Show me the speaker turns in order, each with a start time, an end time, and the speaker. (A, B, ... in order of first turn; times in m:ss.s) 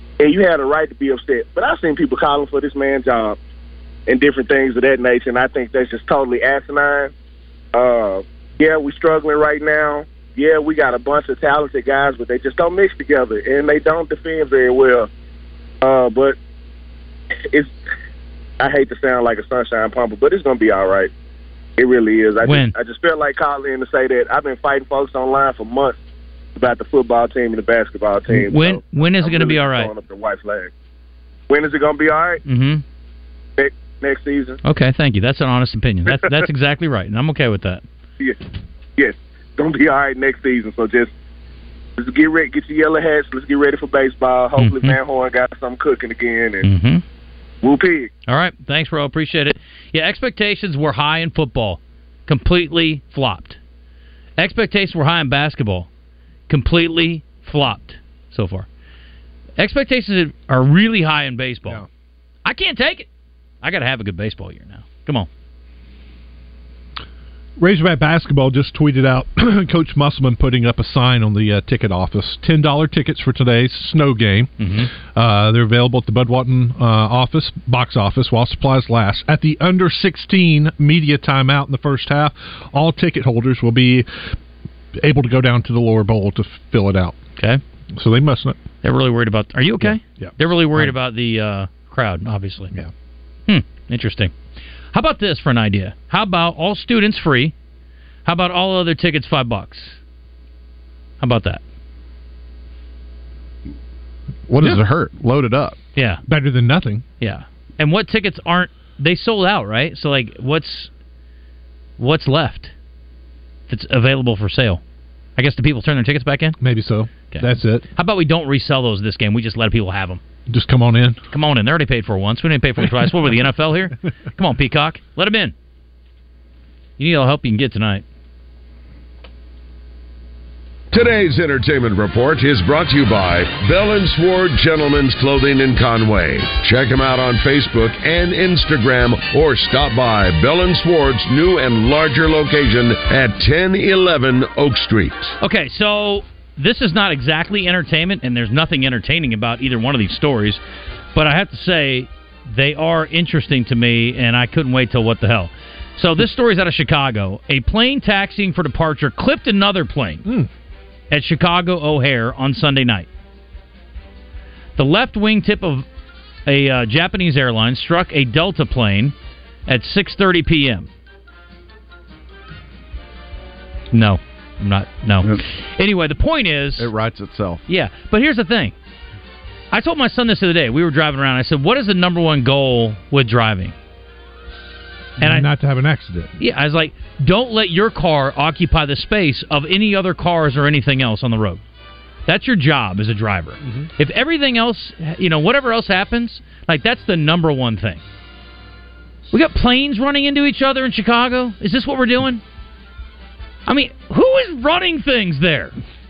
0:00.2-0:03.4 A
0:04.1-0:07.1 A
0:07.7-0:15.1 A
0:15.8-0:16.4 A
0:18.6-0:21.1 A
0:21.8-0:26.0 A
0:22.4-0:22.7 B
0:26.6-0:30.7 A
0:28.3-0:29.9 B
0:31.5-0:32.4 A
0:32.4-0:32.8 B
0:33.6-0:34.6 A
0:34.6-0:37.8 B
0:39.0-0:41.1 A
0:42.0-0:46.6 A
0:44.6-0:45.0 B
0:46.6-0:47.0 B
0:47.6-0:48.1 A
0:48.3-0:53.6 B
0:54.4-0:55.9 B
0:56.5-0:58.7 B
0:59.6-1:01.8 B
1:02.4-1:03.1 B
1:03.6-1:05.3 B
1:07.6-1:24.1 C
1:14.6-1:14.9 B
1:25.0-1:27.2 C
1:27.9-1:28.6 C
1:28.8-1:32.7 B
1:29.8-1:31.0 C
1:33.5-1:34.3 B
1:34.9-1:37.5 B
1:38.2-1:40.0 B
1:41.2-1:41.6 B
1:44.5-1:45.8 D
1:46.0-1:46.2 B
1:46.3-1:47.0 C
1:47.2-1:50.9 B
1:52.0-1:52.7 B
1:53.7-1:54.8 B
1:55.4-1:56.6 B
1:56.6-1:57.8 C
1:57.3-2:00.2 B
2:00.5-2:01.2 C
2:01.3-2:05.5 B
2:07.0-2:08.0 B
2:10.9-2:25.3 E
2:25.4-2:30.6 B
2:31.1-2:40.2 B
2:41.1-2:43.1 B
2:44.8-2:45.9 B
2:46.5-2:49.2 B
2:49.7-2:50.9 B
2:53.9-2:56.9 B
2:56.8-2:57.6 D
2:57.7-2:58.8 B
2:59.7-3:03.8 B
3:05.2-3:06.3 C
3:05.2-3:05.5 B
3:06.4-3:11.6 B
3:12.3-3:18.0 B
3:19.3-3:22.4 B
3:23.7-3:25.8 B